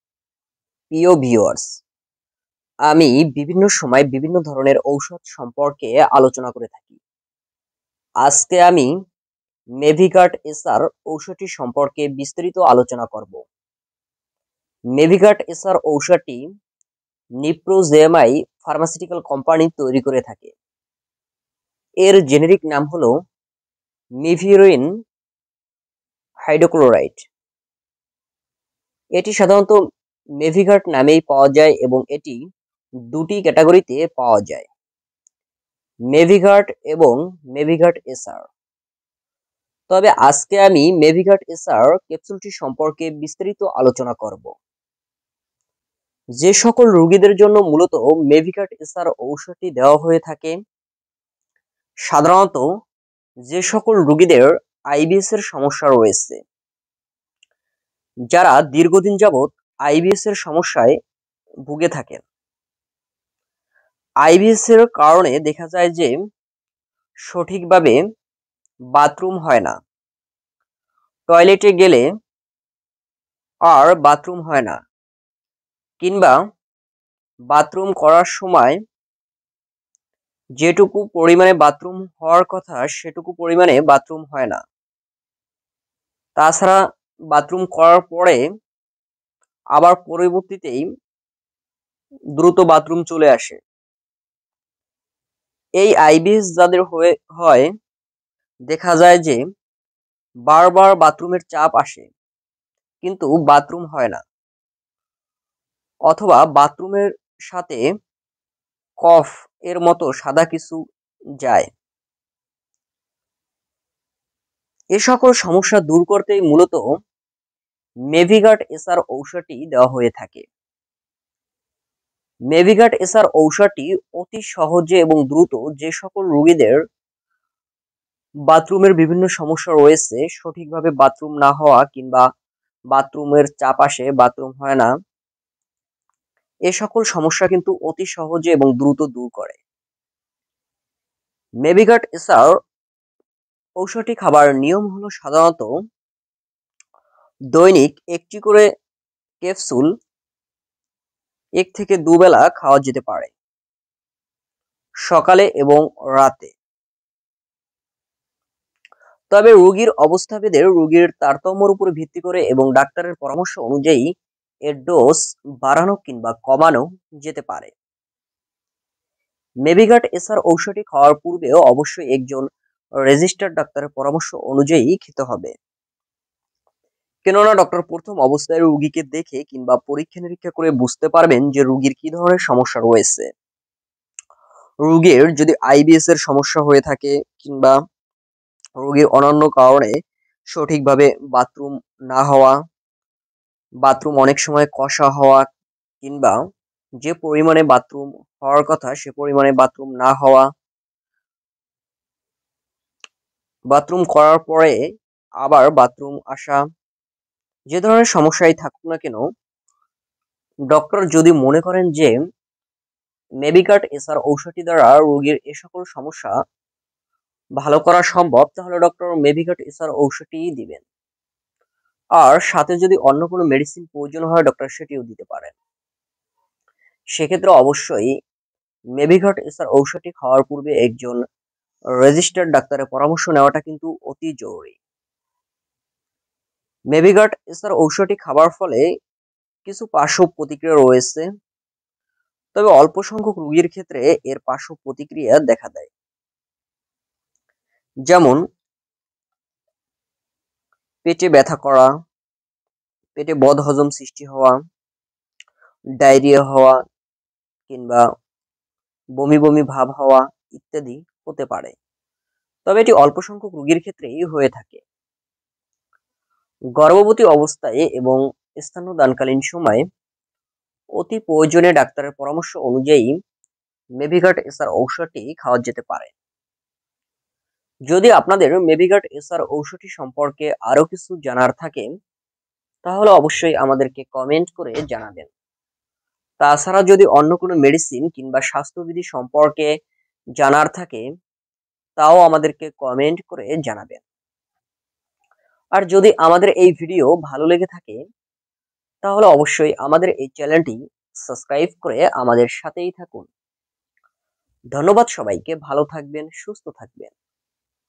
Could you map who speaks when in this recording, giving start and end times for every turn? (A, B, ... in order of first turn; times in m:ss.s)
0:00.9-0:01.8 A
0:02.9-0:07.0 A
0:08.2-0:08.9 A
0:09.8-0:13.4 A
0:15.0-0:16.4 A
0:17.4-0:20.5 A
0:22.0-0:23.1 A
0:24.2-0:24.9 A
0:26.5-0:27.2 A
0:29.2-0:29.8 A
0:30.4-0:32.4 A
0:33.1-0:34.7 A
0:36.1-0:38.5 A
0:39.9-0:44.5 A
0:46.4-0:50.5 A
0:52.1-0:52.6 A
0:53.5-0:56.4 A
0:58.3-1:01.0 A
1:01.7-1:02.2 A
1:04.2-1:06.1 A
1:07.3-1:08.0 A
1:09.0-1:09.8 A
1:11.3-1:12.0 A
1:13.7-1:14.8 A
1:16.0-1:16.3 A
1:17.5-1:18.8 A
1:20.6-1:24.6 A
1:26.4-1:26.8 A
1:27.3-1:28.4 A
1:29.8-1:30.8 A
1:32.4-1:33.6 A
1:35.8-1:37.7 A
1:38.7-1:39.4 A
1:40.5-1:42.1 A
1:43.0-1:44.2 A
1:46.1-1:47.8 A
1:49.0-1:50.8 A
1:51.4-1:51.7 A
1:55.0-1:56.8 A
1:58.1-2:00.5 A
2:02.5-2:06.8 A
2:08.5-2:12.2 A
2:12.9-2:14.9 A
2:16.7-2:19.6 A
2:21.6-2:22.6 A
2:23.8-2:25.7 A
2:27.5-2:28.7 A
2:29.4-2:29.9 A
2:31.6-2:33.3 A
2:35.1-2:36.5 A
2:39.3-2:44.0 A
2:44.7-2:47.7 A
2:49.7-2:52.4 A
2:53.0-2:55.5 A
2:57.2-3:03.3 A
3:04.9-3:07.7 A
3:08.8-3:09.9 A
3:10.5-3:12.6 A
3:13.8-3:15.5 A
3:16.0-3:16.4 A
3:17.0-3:20.5 A
3:23.7-3:24.8 A
3:25.4-3:26.6 A
3:27.7-3:29.2 A
3:30.7-3:32.1 A
3:33.4-3:36.3 A
3:37.6-3:40.8 A
3:42.2-3:45.6 A
3:47.2-3:48.1 A
3:49.0-3:51.2 A
3:52.0-3:54.8 A
3:56.9-3:58.8 A
3:59.7-4:01.3 A
4:02.6-4:05.9 A
4:08.1-4:08.4 A
4:11.0-4:11.9 A
4:13.2-4:14.6 A
4:16.0-4:16.8 A
4:17.7-4:18.0 A
4:19.2-4:21.7 A
4:22.7-4:24.8 A
4:26.8-4:29.8 A
4:31.0-4:33.1 A
4:34.0-4:36.1 A
4:37.9-4:41.9 A
4:42.8-4:45.3 A
4:46.4-4:49.7 A
4:50.4-4:51.0 A
4:52.0-4:54.0 A
4:55.8-4:58.0 A
4:59.0-5:00.8 A
5:01.3-5:03.3 A
5:04.7-5:07.1 A